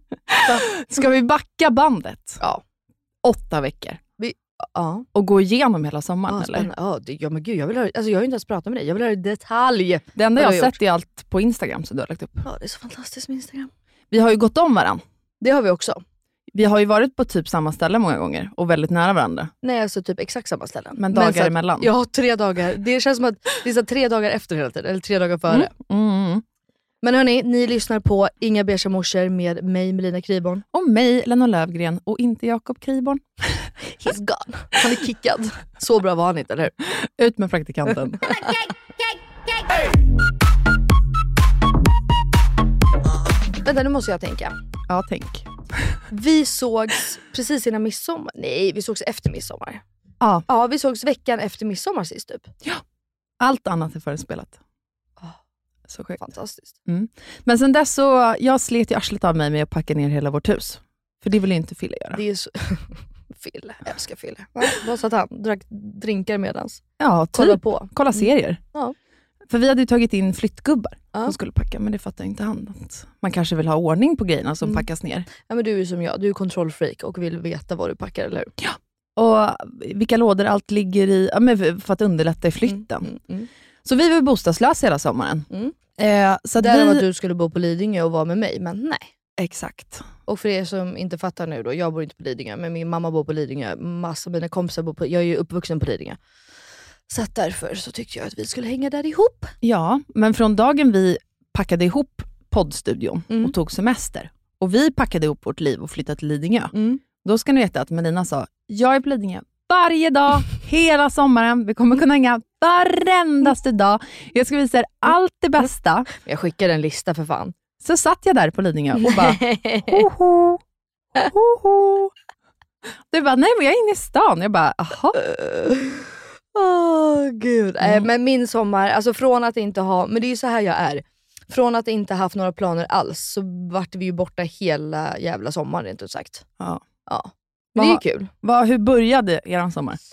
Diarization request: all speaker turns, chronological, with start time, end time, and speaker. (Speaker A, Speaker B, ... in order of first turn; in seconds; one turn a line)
Speaker A: 0.3-2.4
Speaker A: 3.2-4.0
Speaker B: 4.2-5.1
Speaker A: 5.1-6.7
Speaker B: 6.3-10.7
Speaker A: 10.2-12.4
Speaker B: 12.4-13.7
Speaker A: 14.1-15.0
Speaker B: 15.4-16.0
Speaker A: 16.5-19.5
Speaker B: 19.6-25.7
Speaker A: 21.0-21.9
Speaker A: 25.5-26.4
Speaker B: 27.0-30.6
Speaker A: 30.7-33.7
Speaker B: 34.0-36.8
Speaker A: 36.9-38.5
Speaker B: 43.6-44.5
Speaker A: 44.9-46.0
Speaker B: 46.1-49.8
Speaker A: 50.2-50.5
Speaker B: 50.5-52.5
Speaker A: 53.4-54.6
Speaker A: 55.9-56.2
Speaker B: 56.2-56.8
Speaker A: 56.9-62.2
Speaker B: 62.1-68.9
Speaker A: 67.0-68.6
Speaker A: 69.5-75.3
Speaker B: 74.6-74.9
Speaker B: 75.4-78.5
Speaker A: 78.6-83.1
Speaker B: 82.7-83.5
Speaker A: 83.8-87.0
Speaker B: 85.5-85.8
Speaker B: 86.6-89.1
Speaker A: 89.4-90.1
Speaker B: 90.2-96.2
Speaker B: 97.1-99.5
Speaker A: 99.6-116.1
Speaker B: 106.7-107.0
Speaker B: 116.2-117.5
Speaker A: 117.8-120.6
Speaker B: 119.0-120.0
Speaker A: 121.2-122.1
Speaker A: 123.1-125.2
Speaker B: 125.1-136.4
Speaker A: 127.8-128.1
Speaker B: 137.1-138.3
Speaker A: 137.8-140.0